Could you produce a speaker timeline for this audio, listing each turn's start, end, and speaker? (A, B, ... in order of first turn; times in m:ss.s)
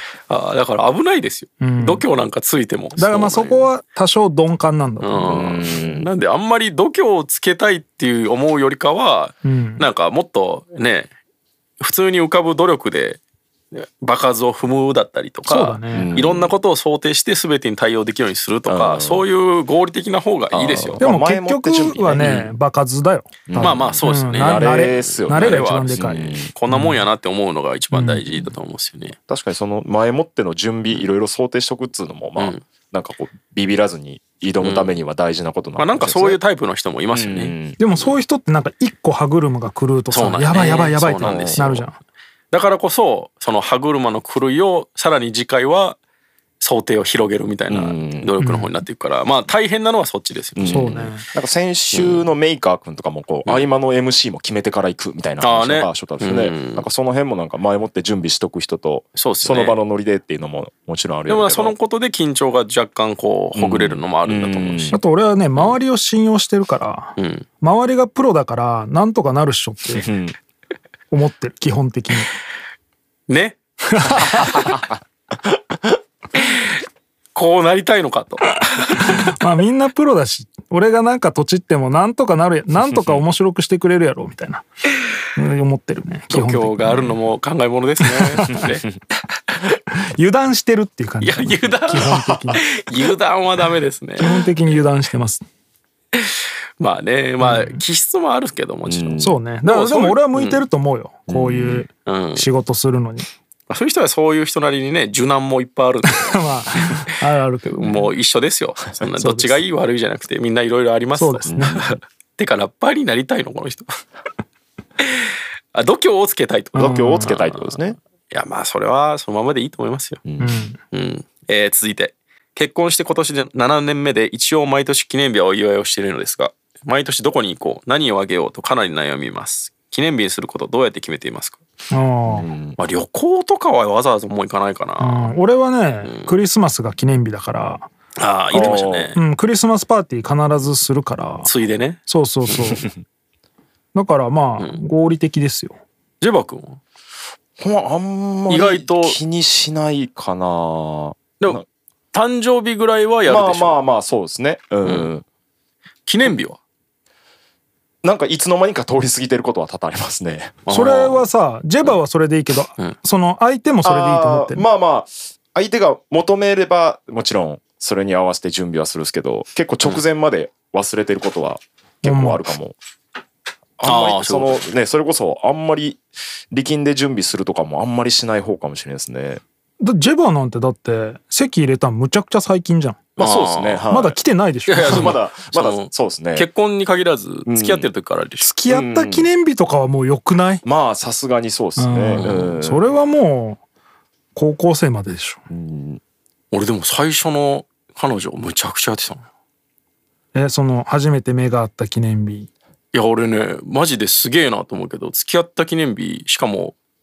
0:00.3-0:03.7 A
0:01.6-0:02.0 B
0:03.0-0:05.5 B
0:05.0-0:11.1 A
0:05.3-0:06.1 C
0:09.4-0:09.9 B
0:11.8-0:13.2 A
0:13.7-0:21.0 A
0:15.5-0:16.2 B
0:15.9-0:16.5 C
0:18.7-0:19.2 C
0:20.5-0:22.4 C
0:21.0-0:27.0 B
0:22.2-0:22.5 A
0:23.5-0:26.5 C
0:23.6-0:29.2 A
0:27.9-0:28.5 B
0:29.3-0:36.4 C
0:32.4-0:32.6 A
0:34.6-0:35.0 A
0:35.8-0:37.6 A
0:37.1-0:37.8 C
0:37.8-0:42.0 B
0:40.1-0:41.9 A
0:41.2-0:41.8 C
0:42.5-0:46.0 A
0:46.6-0:51.1 A
0:47.7-0:48.3 C
0:48.4-0:48.8 B
0:50.6-1:01.8 C
0:50.6-0:51.3 B
0:51.9-0:52.3 A
0:55.4-0:56.9 A
0:59.2-0:59.8 A
1:01.3-1:05.0 A
1:03.6-1:05.0 C
1:04.9-1:10.1 B
1:07.2-1:07.5 A
1:09.9-1:10.4 C
1:11.1-1:12.3 B
1:13.3-1:13.6 A
1:13.9-1:14.8 B
1:14.3-1:14.8 C
1:17.4-1:19.1 A
1:18.9-1:24.7 B
1:25.4-1:27.2 B
1:26.3-1:28.9 A
1:28.0-1:28.7 B
1:30.2-1:32.8 B
1:31.2-1:34.4 A
1:34.2-1:35.5 B
1:36.1-1:40.6 A
1:37.4-1:37.8 B
1:38.9-1:39.4 C
1:39.2-1:43.3 B
1:41.3-1:41.9 C
1:42.1-1:42.5 A
1:43.7-1:47.1 A
1:46.1-1:48.1 B
1:47.7-1:53.9 A
1:49.0-1:49.6 B
1:51.2-1:52.0 B
1:51.5-1:51.9 C
1:55.0-1:57.8 A
1:56.8-1:58.0 C
1:56.8-1:57.4 B
1:58.3-2:00.2 A
2:00.2-2:00.7 C
2:00.4-2:00.8 B
2:00.9-2:11.6 A
2:11.9-2:12.5 B
2:12.3-2:12.8 C
2:12.8-2:15.4 A
2:15.0-2:17.9 B
2:16.0-2:16.3 A
2:18.2-2:19.2 A
2:18.5-2:19.1 C
2:18.6-2:21.5 B
2:21.4-2:22.8 A
2:22.1-2:22.9 B
2:23.9-2:25.8 B
2:26.2-2:26.8 A
2:27.6-2:31.6 C
2:28.5-2:29.2 A
2:32.1-2:33.8 A
2:33.3-2:35.2 C
2:34.8-2:35.1 A
2:36.1-2:36.6 A
2:38.0-2:40.6 C
2:40.7-2:41.3 A
2:40.7-2:44.7 B
2:43.8-2:52.8 C
2:52.0-2:52.4 B
2:53.8-2:56.0 C
2:53.8-2:54.7 A
2:56.5-2:59.4 C
2:59.8-3:03.0 B
3:03.2-3:04.2 C
3:03.2-3:03.9 A
3:03.9-3:05.2 B
3:04.7-3:08.5 A
3:04.8-3:06.5 C
3:07.5-3:07.9 C
3:08.4-3:10.6 B
3:08.7-3:09.3 C
3:10.6-3:12.9 C
3:11.8-3:13.6 B
3:12.2-3:12.5 A
3:14.3-3:15.4 B
3:15.5-3:16.0 C
3:16.5-3:19.3 A
3:20.3-3:22.5 B
3:22.9-3:26.8 A